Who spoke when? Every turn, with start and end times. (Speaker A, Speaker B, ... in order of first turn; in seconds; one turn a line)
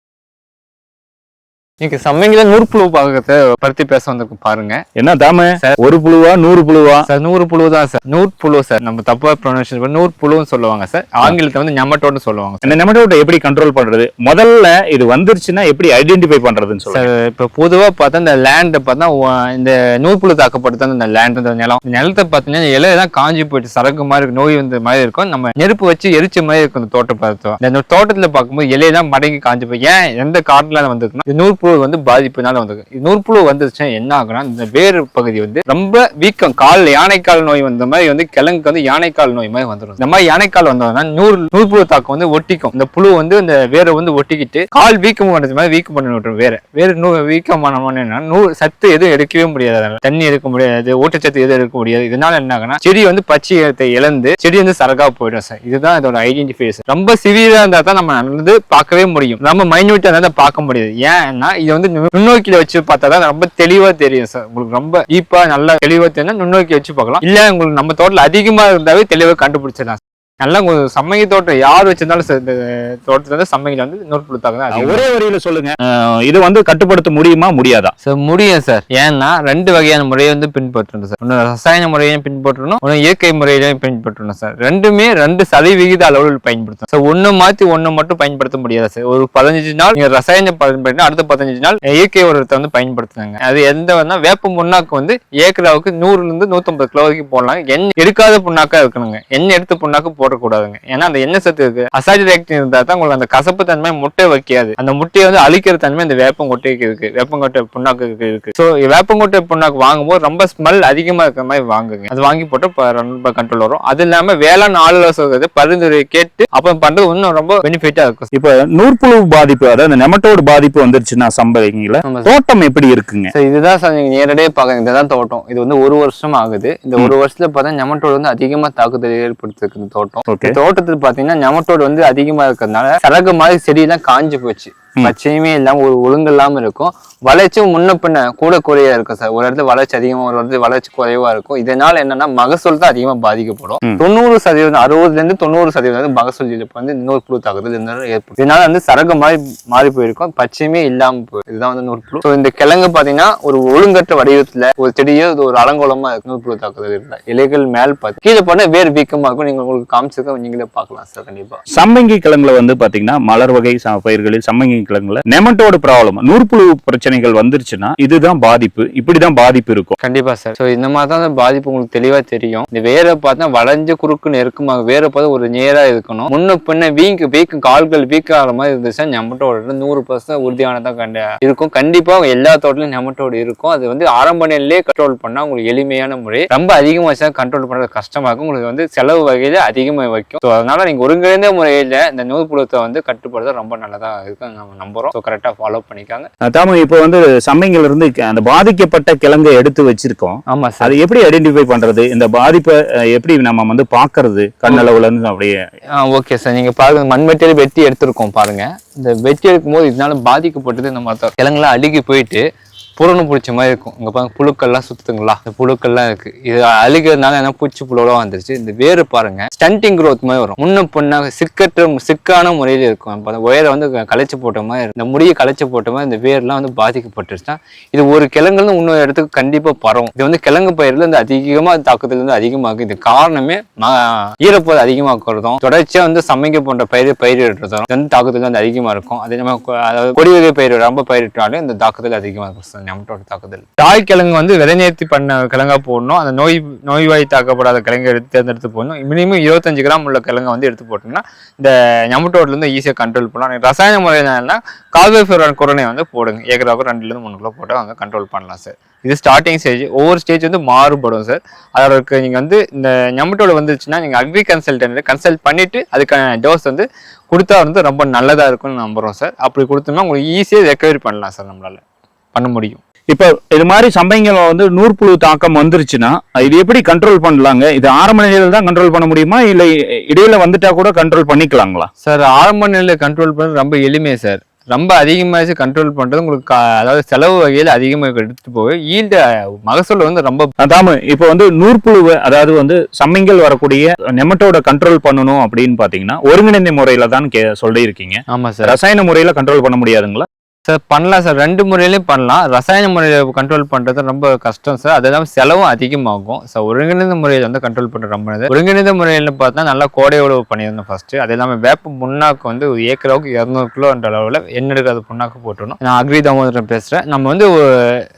Speaker A: 1.8-4.8
Speaker B: 5.0-7.1
Speaker A: 7.0-12.8
Speaker B: 12.6-17.1
Speaker A: 16.9-75.1
Speaker B: 74.7-77.9
Speaker A: 78.0-118.3
Speaker B: 118.3-123.3
Speaker A: 122.0-122.3
Speaker A: 123.3-161.6
Speaker B: 130.3-130.6
Speaker B: 161.7-169.9
Speaker A: 170.0-196.3
Speaker B: 196.5-205.6
Speaker A: 200.5-201.0
Speaker A: 205.9-212.4
Speaker A: 213.0-271.8
Speaker A: 272.4-272.8
Speaker B: 273.1-281.9
Speaker A: 282.0-290.5
Speaker B: 290.6-300.2
Speaker A: 298.3-298.8
Speaker A: 300.7-317.7